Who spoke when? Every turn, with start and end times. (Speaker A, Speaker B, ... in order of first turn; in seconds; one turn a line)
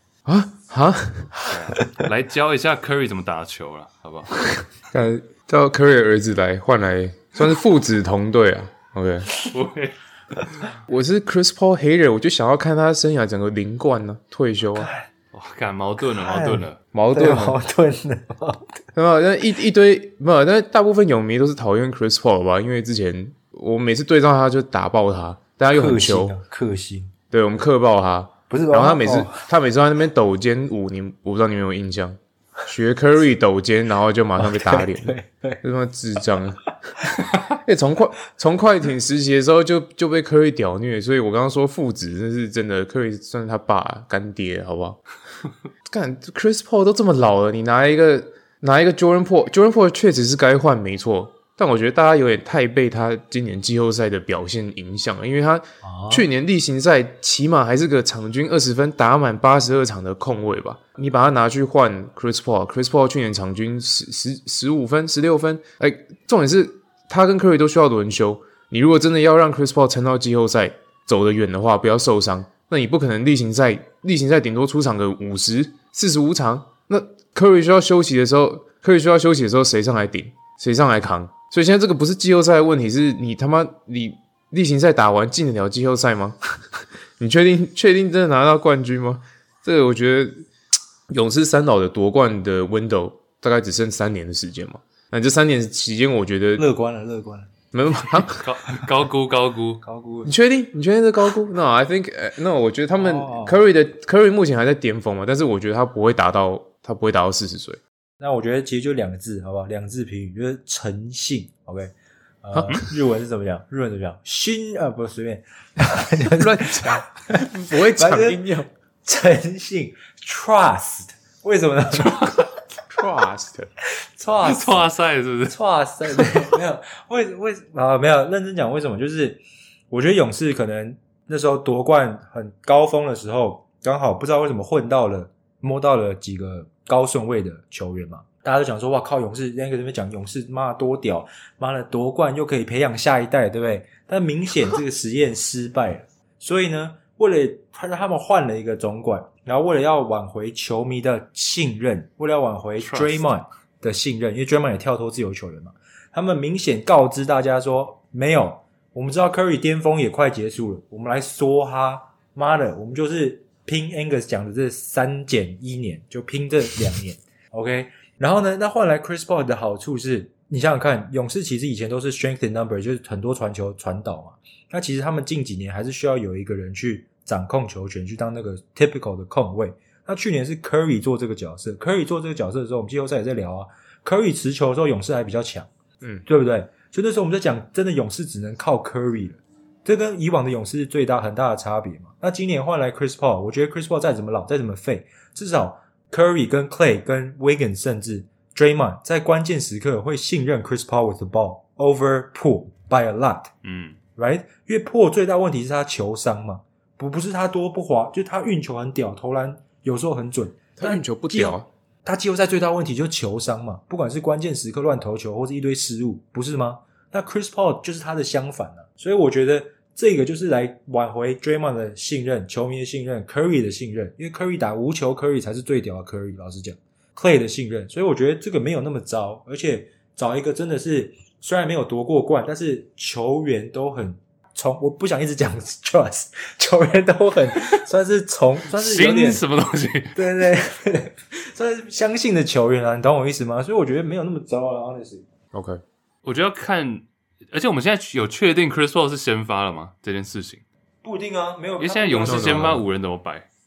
Speaker A: 0.2-1.3
Speaker B: 1.4-4.5
Speaker A: 4.9-9.3
Speaker B: 9.5-10.7
Speaker A: 10.9-14.9
Speaker C: 14.8-15.1
Speaker B: 15.3-16.8
Speaker C: 16.1-18.8
Speaker A: 16.9-17.6
Speaker A: 18.9-26.4
Speaker C: 25.7-27.1
Speaker A: 27.3-36.7
Speaker C: 28.5-29.5
Speaker C: 34.4-35.6
Speaker C: 37.0-37.6
Speaker A: 37.5-45.0
Speaker A: 45.8-86.3
Speaker C: 55.8-56.2
Speaker A: 87.2-90.5
Speaker A: 91.1-96.7
Speaker C: 96.6-97.5
Speaker A: 97.7-98.4
Speaker B: 98.3-99.8
Speaker C: 99.8-100.3
Speaker A: 100.2-107.8
Speaker C: 103.0-103.6
Speaker C: 108.2-118.4
Speaker A: 116.3-118.7
Speaker C: 119.0-122.6
Speaker A: 122.9-123.7
Speaker C: 124.0-124.9
Speaker B: 124.4-125.6
Speaker C: 125.5-185.7
Speaker B: 152.8-153.3
Speaker A: 186.0-186.3
Speaker C: 186.2-203.5
Speaker B: 203.6-204.0
Speaker C: 204.2-239.4
Speaker A: 210.8-211.7
Speaker B: 238.7-240.2
Speaker C: 240.1-245.2
Speaker A: 245.5-245.8
Speaker B: 246.2-250.6
Speaker C: 251.0-252.8
Speaker B: 251.8-253.5
Speaker A: 252.2-252.8